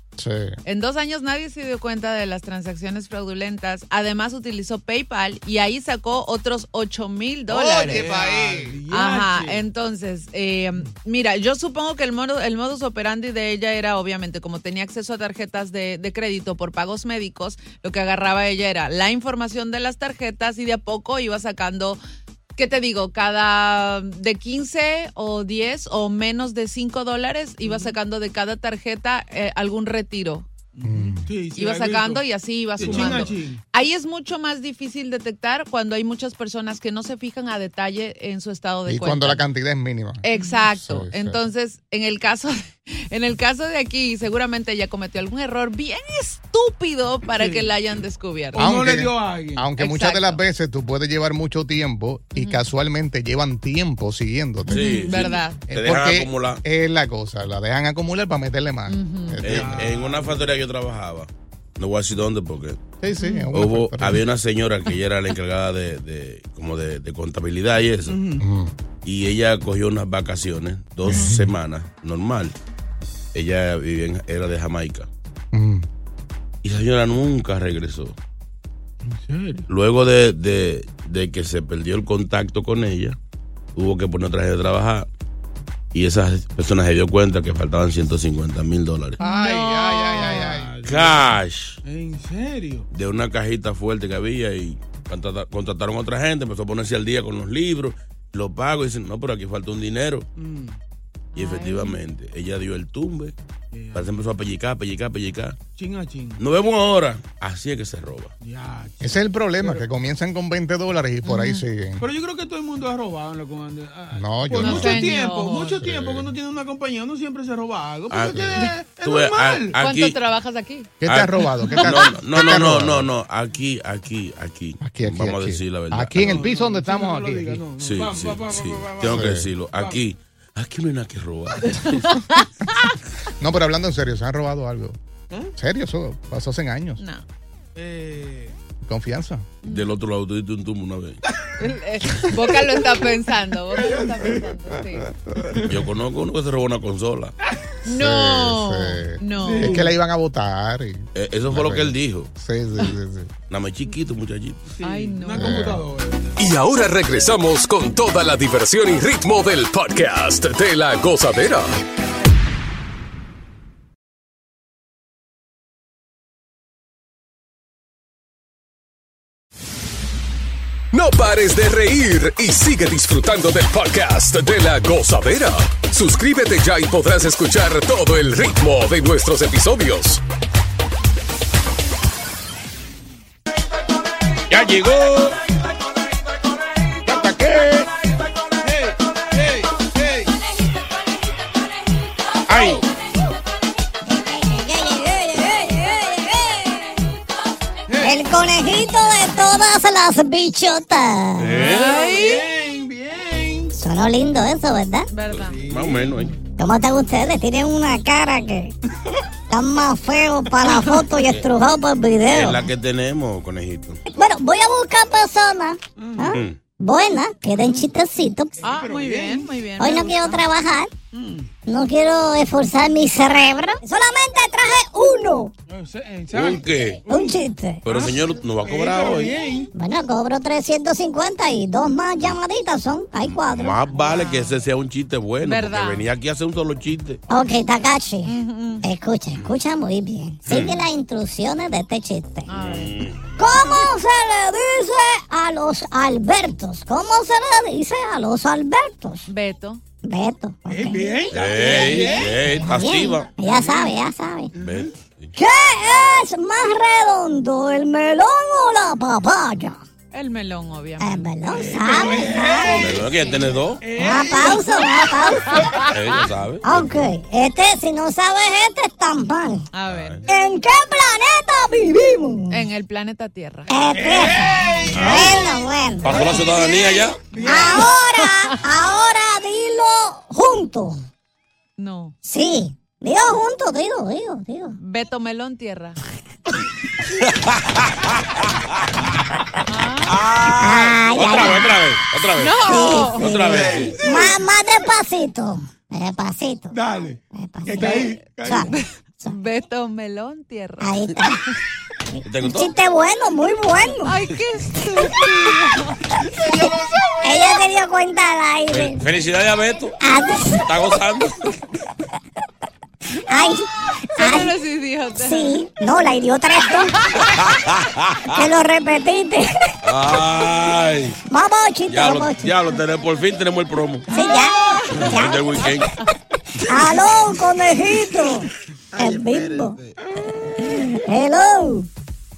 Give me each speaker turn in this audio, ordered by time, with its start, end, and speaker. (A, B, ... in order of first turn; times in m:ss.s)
0:00.2-0:00.6 A
0:00.6-0:08.2 B
0:07.5-0:08.8 A
0:07.9-0:09.7 C
0:08.9-0:22.0 B
0:22.6-0:30.5 B
0:27.6-0:28.0 C
0:30.7-0:32.2 C
0:30.8-0:31.3 A
0:31.6-0:39.4 B
0:32.8-0:33.6 C
0:38.9-0:41.4 A
0:40.2-0:48.7 B
0:47.3-0:47.7 C
0:48.5-0:49.7 C
0:48.6-0:55.0 A
0:49.8-0:50.4 B
0:52.4-0:52.6 B
0:54.7-0:56.6 D
0:54.8-0:55.3 C
0:55.0-0:55.6 B
0:55.7-0:59.8 A
0:58.9-0:59.4 B
0:59.4-1:02.8 D
0:59.4-1:00.6 C
1:03.0-1:04.2 A
1:03.2-1:03.5 B
1:03.5-1:08.2 D
1:08.1-1:08.4 C
1:08.4-1:08.7 A
1:09.0-1:12.5 D
1:11.1-1:11.5 A
1:13.3-1:15.1 D
1:15.5-1:15.9 A
1:16.6-1:18.2 D
1:19.1-1:19.6 C
1:19.7-1:23.2 D
1:23.8-1:25.1 D
1:25.9-1:29.2 D
1:29.2-1:30.6 B
1:29.2-1:30.8 A
1:30.1-1:31.3 C
1:30.8-1:31.8 D
1:31.8-1:32.9 C
1:32.9-1:40.3 D
1:40.4-1:40.8 C
1:41.4-1:42.0 B
1:41.4-1:43.4 D
1:43.7-1:44.2 C
1:43.9-1:45.6 D
1:45.8-1:46.4 C
1:46.4-1:48.3 D
1:48.4-1:49.9 C
1:49.0-1:52.1 A
1:51.2-1:51.6 B
1:52.0-1:59.7 C
1:54.1-1:55.0 A
1:54.6-1:55.8 B
1:55.9-1:56.2 D
1:58.1-2:00.2 D
1:59.8-2:00.9 B
2:01.0-2:03.1 A
2:01.1-2:06.4 D
2:04.8-2:07.6 A
2:06.2-2:10.0 C
2:07.8-2:12.1 D
2:09.1-2:09.5 A
2:11.8-2:12.7 B
2:13.4-2:15.0 A
2:15.6-2:17.0 A
2:17.0-2:17.2 B
2:17.8-2:18.6 C
2:18.8-2:19.5 A
2:19.6-2:19.9 B
2:19.7-2:21.2 D
2:21.6-2:25.1 B
2:23.7-2:24.6 C
2:25.7-2:27.3 D
2:27.8-2:29.8 B
2:27.9-2:33.3 A
2:29.3-2:30.0 C
2:31.2-2:32.3 D
2:33.5-2:34.6 D
2:34.7-2:36.3 C
2:34.8-2:35.7 B
2:35.4-2:35.8 A
2:36.4-2:41.8 E
2:50.9-3:00.2 E
3:04.5-3:05.4 D
3:07.0-3:07.9 D
3:08.6-3:10.3 C
3:12.5-3:12.8 D
3:14.2-3:16.9 F
3:17.9-3:18.3 C
3:18.0-3:21.5 F
3:21.4-3:22.0 D
3:21.6-3:23.8 C
3:21.6-3:22.4 B
3:23.8-3:25.1 F
3:25.1-3:25.6 B
3:25.4-3:26.3 D
3:25.5-3:26.3 C
3:26.6-3:28.7 F
3:29.5-3:32.6 F
3:32.3-3:34.0 D
3:34.2-3:38.6 F
3:36.0-3:36.4 C
3:38.6-3:40.4 B
3:38.6-3:39.6 C
3:39.8-3:40.9 F
3:41.1-3:41.5 C
3:41.7-3:45.5 F
3:45.7-3:49.7 C
3:46.3-3:47.0 D
3:47.1-3:47.8 F
3:47.8-3:49.4 D
3:49.7-3:53.8 F
3:53.3-3:57.2 D
3:55.4-3:56.0 B
3:57.3-4:02.5 F
3:58.3-3:58.8 B
4:00.5-4:00.8 D
4:02.5-4:02.9 B
4:02.5-4:03.2 D
4:03.4-4:09.2 F
4:09.3-4:09.8 B
4:10.0-4:14.5 F
4:10.7-4:12.5 C
4:11.3-4:13.3 D
4:13.4-4:13.9 C
4:14.6-4:14.9 C
4:14.6-4:15.3 D
4:15.4-4:19.8 F
4:20.1-4:21.3 B
4:21.0-4:22.8 F
4:21.4-4:23.2 C
4:22.7-4:23.9 D
4:23.8-4:25.9 C
4:24.0-4:25.6 F
4:25.9-4:27.0 D
4:26.6-4:29.6 F
4:29.7-4:30.2 B
4:29.9-4:30.2 D
4:30.3-4:32.6 F
4:32.5-4:33.7 B
4:33.7-4:36.3 F
4:33.9-4:35.5 C
4:34.9-4:35.5 D
4:36.0-4:37.2 D
4:36.1-4:38.0 C
4:37.4-4:41.0 F
4:41.8-4:42.2 B
4:42.2-4:44.8 F
4:44.8-4:46.0 B
4:49.7-4:50.2 B
4:50.1-4:54.0 D
4:50.6-4:51.8 F
4:52.4-4:53.4 B
4:52.6-4:53.3 F
4:53.2-4:54.4 C
4:54.0-4:56.8 F
4:56.7-4:58.7 C
4:57.3-4:59.3 F
4:57.8-5:01.0 B
5:00.8-5:01.4 F
5:02.2-5:02.7 D
5:02.4-5:04.2 F
5:04.0-5:06.0 B
5:06.4-5:07.6 C
5:07.2-5:09.0 F
5:08.7-5:10.0 D
5:10.0-5:10.7 F
5:10.6-5:11.5 D
5:13.3-5:14.5 F
5:14.2-5:15.6 B
5:15.2-5:17.1 F
5:17.0-5:17.4 B
5:17.4-5:18.3 D
5:18.3-5:19.5 F
5:19.8-5:21.2 D
5:21.3-5:22.6 F
5:21.9-5:24.1 D
5:24.1-5:25.8 F
5:24.1-5:24.9 B
5:24.9-5:25.9 D
5:26.7-5:29.8 F
5:29.0-5:29.8 C
5:30.6-5:31.9 F